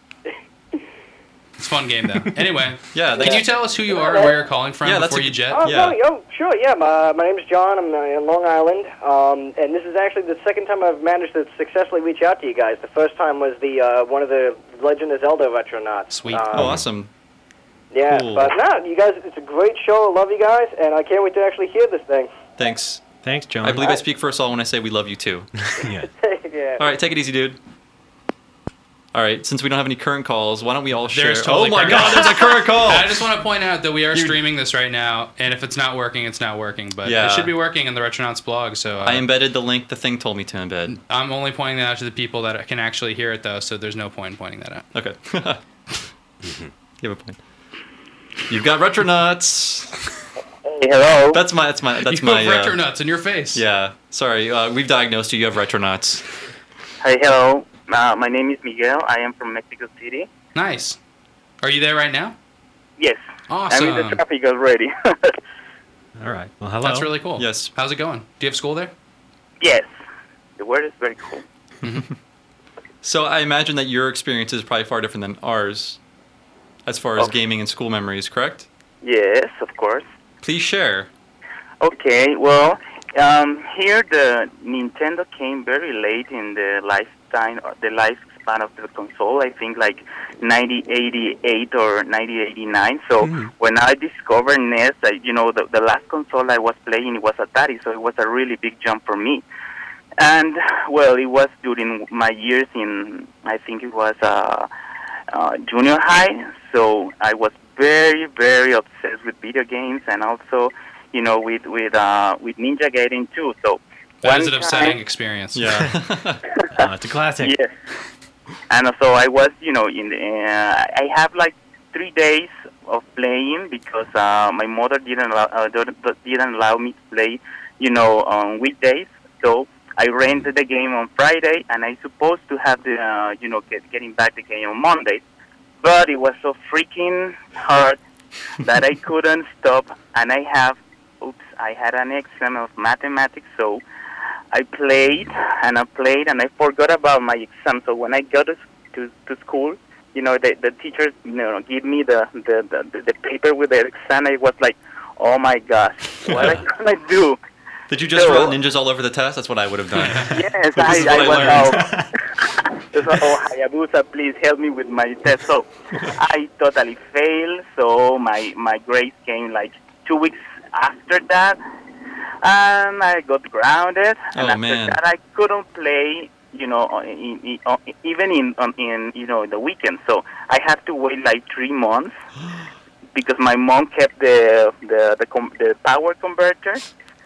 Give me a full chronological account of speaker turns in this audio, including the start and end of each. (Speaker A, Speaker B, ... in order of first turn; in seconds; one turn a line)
Speaker A: 1.6-5.6
Speaker B: 2.9-3.5
Speaker C: 3.2-4.4
Speaker B: 4.8-6.0
Speaker C: 5.5-16.7
Speaker A: 16.1-16.4
Speaker B: 16.5-17.1
Speaker D: 16.6-16.8
Speaker C: 17.9-22.3
Speaker B: 18.1-18.5
Speaker B: 22.6-23.0
Speaker D: 23.2-24.0
Speaker B: 23.6-25.5
Speaker D: 25.6-26.1
Speaker C: 26.1-26.8
Speaker B: 26.8-27.6
Speaker B: 29.1-33.1
Speaker A: 31.1-39.3
Speaker D: 31.9-32.2
Speaker B: 37.0-37.5
Speaker B: 39.0-41.0
Speaker A: 40.9-44.9
Speaker B: 45.0-45.6
Speaker D: 46.4-46.7
Speaker B: 47.0-47.4
Speaker B: 48.5-50.0
Speaker E: 50.6-51.4
Speaker B: 51.3-52.8
Speaker A: 52.1-53.6
Speaker B: 53.5-56.2
Speaker E: 57.0-60.3
Speaker A: 60.5-61.0
Speaker A: 61.6-62.4
Speaker E: 63.0-65.3
Speaker A: 63.5-64.2
Speaker D: 66.2-67.1
Speaker A: 66.8-68.9
Speaker B: 67.4-67.7
Speaker E: 69.6-69.9
Speaker E: 70.6-71.4
Speaker B: 73.0-76.0
Speaker B: 76.9-78.7
Speaker E: 79.0-80.1
Speaker B: 80.4-81.1
Speaker E: 81.8-99.4
Speaker D: 93.2-93.5
Speaker E: 100.2-104.7
Speaker E: 105.3-115.0
Speaker A: 114.2-115.9
Speaker B: 115.5-116.4
Speaker D: 116.7-117.6
Speaker E: 117.4-117.7
Speaker E: 118.7-135.2
Speaker E: 135.8-138.0
Speaker E: 138.6-143.8
Speaker E: 144.5-157.4
Speaker B: 156.3-156.6
Speaker B: 157.9-161.7
Speaker E: 158.1-158.5
Speaker A: 160.0-160.4
Speaker E: 160.3-171.6
Speaker D: 161.6-162.1
Speaker E: 172.4-182.2
Speaker B: 174.3-175.0
Speaker E: 183.2-186.8